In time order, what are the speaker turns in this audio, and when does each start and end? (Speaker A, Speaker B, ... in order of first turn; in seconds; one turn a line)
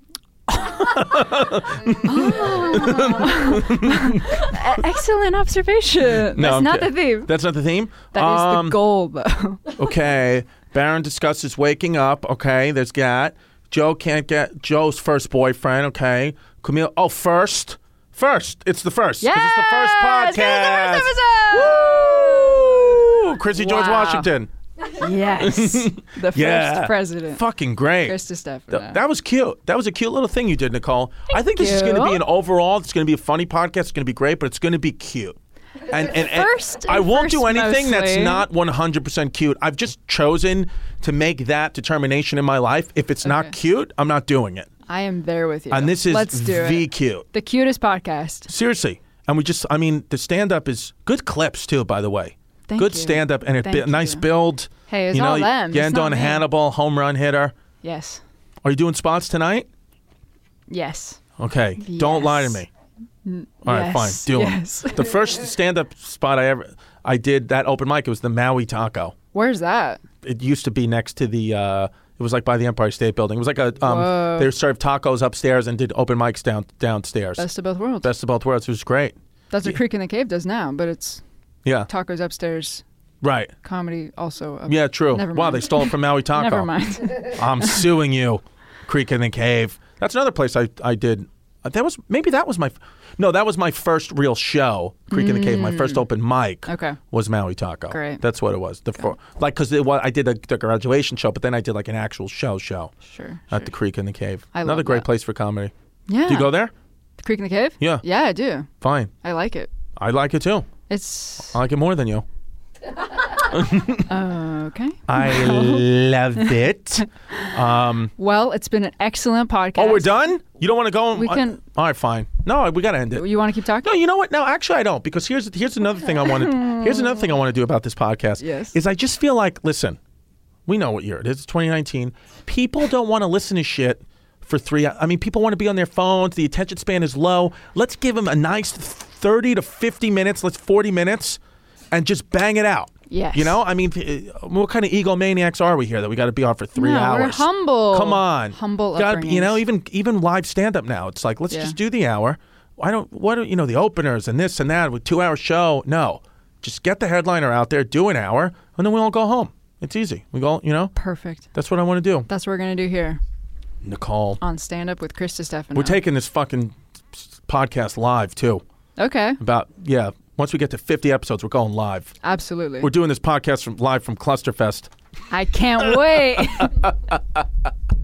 Speaker A: 0.5-4.8
Speaker B: 0.6-1.0
Speaker B: 2.0-7.3
Speaker A: 6.2-8.8
Speaker B: 8.1-9.7
Speaker A: 9.7-24.5
Speaker B: 19.2-24.3
Speaker B: 24.9-27.4
Speaker A: 25.4-35.4
Speaker B: 28.0-29.0
Speaker B: 31.3-32.2
Speaker A: 35.9-44.7
Speaker B: 36.0-38.4
Speaker B: 43.2-43.5
Speaker B: 44.9-48.5
Speaker A: 45.7-47.2
Speaker A: 48.5-57.5
Speaker B: 52.7-54.3
Speaker B: 54.9-56.5
Speaker B: 57.8-58.2
Speaker A: 58.6-59.7
Speaker B: 60.7-61.2
Speaker A: 61.4-62.7
Speaker B: 61.8-62.6
Speaker B: 63.2-65.1
Speaker A: 63.6-69.1
Speaker B: 69.3-70.0
Speaker A: 70.2-77.5
Speaker B: 73.8-74.5
Speaker B: 77.4-78.1
Speaker A: 78.0-79.7
Speaker B: 79.5-81.2
Speaker B: 81.9-82.8
Speaker A: 83.2-83.5
Speaker B: 83.6-87.8
Speaker A: 84.7-102.9
Speaker B: 95.1-96.1
Speaker B: 96.7-97.0
Speaker B: 97.9-98.2
Speaker B: 103.0-103.7
Speaker A: 103.5-105.7
Speaker B: 104.5-105.1
Speaker B: 106.1-106.5
Speaker A: 106.2-106.7
Speaker B: 107.2-108.7
Speaker A: 107.8-108.0
Speaker A: 108.8-109.1
Speaker B: 109.2-109.7
Speaker A: 110.0-110.7
Speaker B: 110.9-111.5
Speaker A: 111.5-112.2
Speaker A: 113.4-114.1
Speaker B: 114.0-115.8
Speaker A: 115.1-118.1
Speaker B: 118.2-120.2
Speaker A: 119.8-123.3
Speaker B: 121.1-121.6
Speaker B: 123.1-123.9
Speaker A: 123.8-130.0
Speaker B: 126.2-127.2
Speaker B: 128.4-128.8
Speaker A: 130.7-141.4
Speaker A: 141.9-160.9
Speaker B: 143.1-143.6
Speaker B: 146.8-149.6
Speaker B: 151.5-151.8
Speaker B: 160.9-161.5
Speaker A: 161.5-162.3
Speaker B: 162.3-163.2
Speaker A: 163.8-164.4
Speaker B: 164.4-166.0
Speaker A: 165.7-168.6
Speaker B: 169.0-169.4
Speaker A: 169.4-172.1
Speaker B: 172.2-172.9
Speaker A: 172.8-174.9
Speaker B: 175.3-176.7
Speaker A: 175.8-177.7